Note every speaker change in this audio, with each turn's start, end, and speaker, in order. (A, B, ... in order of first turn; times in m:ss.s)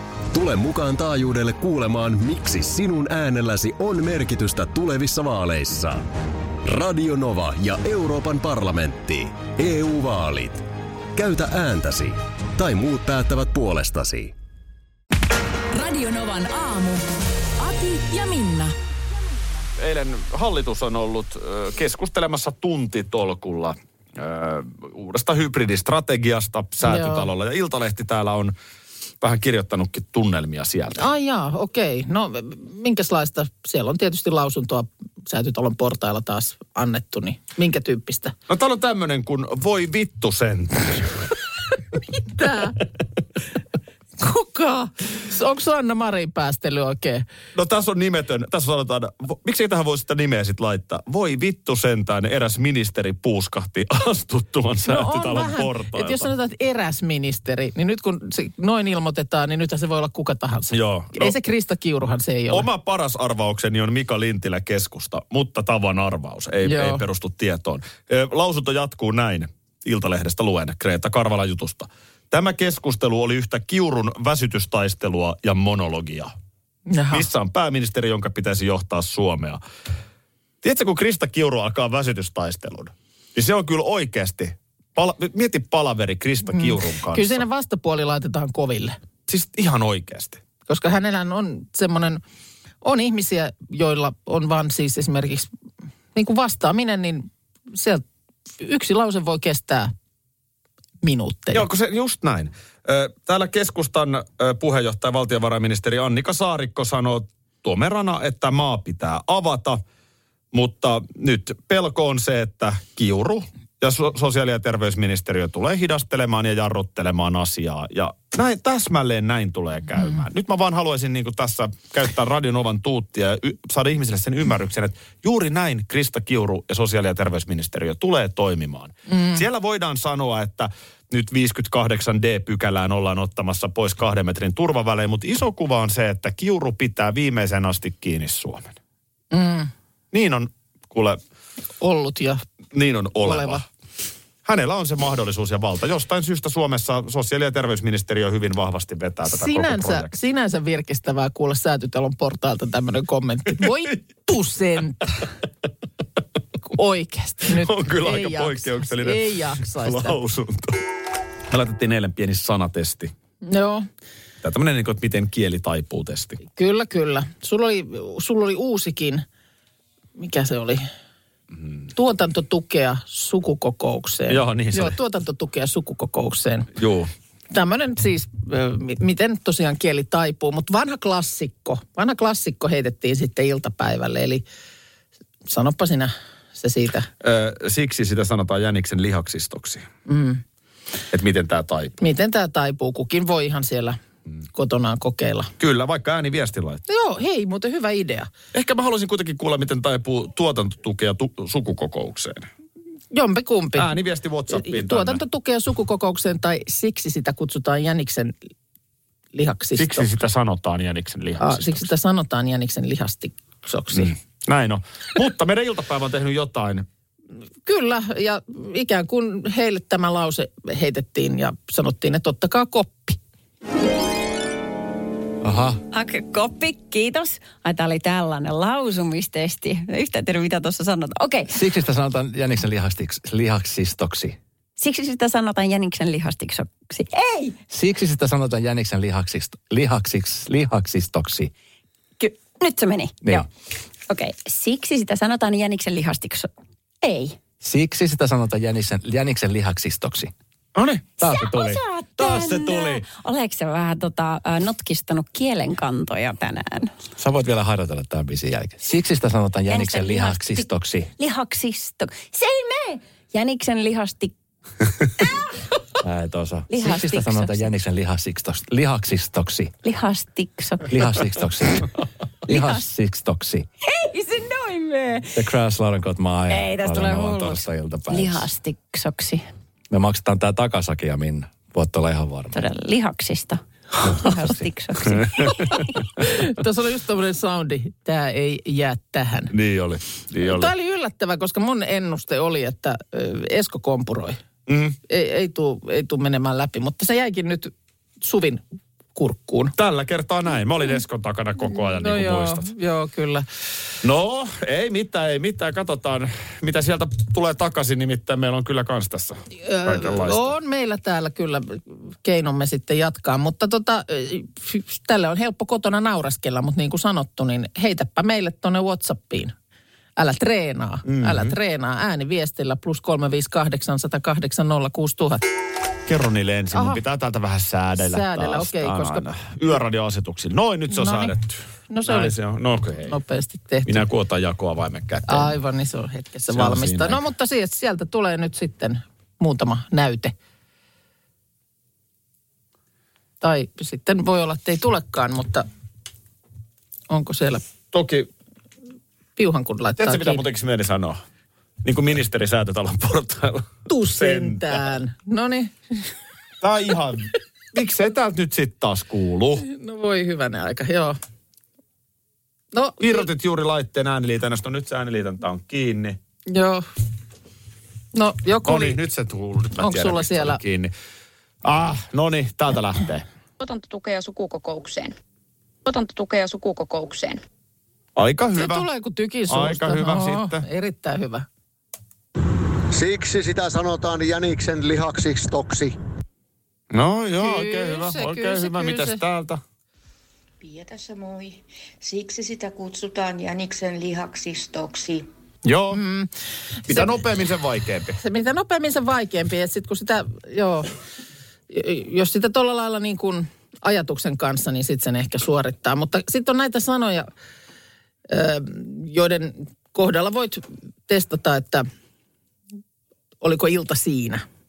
0:00.3-0:06.1 A
0:06.6-0:14.3 A
0:15.7-0:17.0 B
0:17.6-0:18.7 B
0:19.8-0:28.6 C
0:26.8-0:27.3 D
0:29.2-0:31.0 C
0:31.0-0:38.3 D
0:38.5-0:41.3 C
0:42.3-0:42.8 D
0:44.2-0:47.3 D
0:47.5-0:56.3 C
0:54.9-1:02.7 D
1:00.7-1:01.3 C
1:02.5-1:16.3 C
1:06.6-1:07.0 D
1:16.9-1:17.3 D
1:17.1-1:19.6 C
1:20.6-1:27.4 C
1:26.5-1:29.0 D
1:29.3-1:30.4 C
1:30.7-1:32.2 D
1:32.8-1:35.5 D
1:36.1-1:38.0 D
1:38.6-1:39.9 D
1:41.0-1:41.7 D
1:41.5-1:49.8 C
1:50.5-2:18.7 C
2:09.1-2:09.4 D
2:19.3-2:19.7 D
2:20.1-2:21.2 C
2:21.8-2:22.4 D
2:22.7-2:23.6 C
2:23.2-2:23.6 D
2:24.4-2:30.1 C
2:29.3-2:35.3 D
2:36.6-2:40.2 D
2:37.4-2:40.8 C
2:41.5-2:43.1 C
2:43.4-2:43.9 D
2:44.4-2:46.4 C
2:46.4-2:49.2 D
2:50.2-2:50.9 D
2:51.9-2:56.7 D
2:54.3-2:55.0 C
2:56.8-2:57.1 C
2:57.5-3:04.4 D
3:05.4-3:07.1 D
3:07.2-3:09.8 C
3:10.1-3:10.4 D
3:11.1-3:12.0 C
3:12.0-3:14.0 D
3:14.5-3:15.5 D
3:15.6-3:16.8 C
3:16.9-3:18.3 D
3:18.5-3:22.5 C
3:23.1-3:23.9 D
3:23.8-3:25.2 C
3:24.5-3:28.3 D
3:29.3-3:30.1 D
3:29.8-3:31.9 C
3:31.4-3:34.1 D
3:33.9-3:36.8 C
3:37.6-3:43.2 D
3:45.4-3:45.8 E
3:45.9-3:51.5 F
3:51.5-3:54.4 E
3:54.8-3:57.6 F
3:57.7-4:01.5 E
4:02.2-4:03.5 F
4:04.1-4:06.5 F
4:07.0-4:07.4 F
4:07.6-4:10.3 E
4:10.7-4:11.1 C
4:11.2-4:13.0 E
4:11.2-4:16.9 F
4:17.2-4:21.1 E
4:19.7-4:20.7 F
4:21.2-4:24.3 F
4:26.0-4:29.8 E
4:26.7-4:27.7 F
4:29.8-4:31.0 F
4:30.9-4:31.9 E
4:32.5-4:32.9 F
4:32.5-4:33.7 E
4:33.8-4:35.4 F
4:35.4-4:38.4 E
4:36.5-4:39.4 F
4:39.9-4:42.6 E
4:42.5-4:46.0 F
4:44.0-4:44.6 E
4:46.2-4:49.5 D
4:49.5-4:50.7 C
4:50.4-4:54.4 D
4:54.7-4:55.0 C
4:55.1-4:58.6 D
4:59.2-4:59.8 D
4:59.8-5:02.7 C
5:01.7-5:03.5 D
5:04.0-5:10.5 C
5:09.6-5:19.5 D
5:20.2-5:25.4 D
5:21.0-5:21.6 C
5:26.1-5:33.2 C
5:26.7-5:27.0 D
5:28.0-5:29.2 D
5:30.9-5:31.3 D
5:31.9-5:32.4 D
5:33.1-5:34.0 D
5:33.8-5:35.6 C
5:35.3-5:40.3 D
5:36.5-5:37.2 C
5:43.4-5:45.7 D
5:47.1-5:47.6 D
5:47.9-5:48.3 C
5:49.4-5:50.4 D
5:50.0-5:51.2 C
5:51.8-5:54.8 C
5:53.9-5:56.0 D
5:56.6-5:59.6 C
5:59.6-6:01.2 D
6:02.7-6:03.3 D
6:03.0-6:06.2 C
6:06.5-6:06.8 D
6:08.1-6:09.0 D
6:08.6-6:10.9 C
6:09.8-6:10.6 D
6:11.6-6:13.2 C
6:13.6-6:15.1 G
6:15.8-6:17.4 G
6:18.2-6:18.9 C
6:18.6-6:21.5 D
6:19.5-6:20.7 C
6:22.9-6:25.9 H
6:26.9-6:29.6 C
6:27.4-6:29.2 D
6:30.6-6:35.3 I
6:35.6-6:36.0 C
6:35.9-6:36.3 D
6:36.9-6:37.2 D
6:36.9-6:38.2 C
6:38.2-6:40.9 D
6:41.7-6:47.3 D
6:48.3-6:51.9 D
6:53.4-6:54.4 D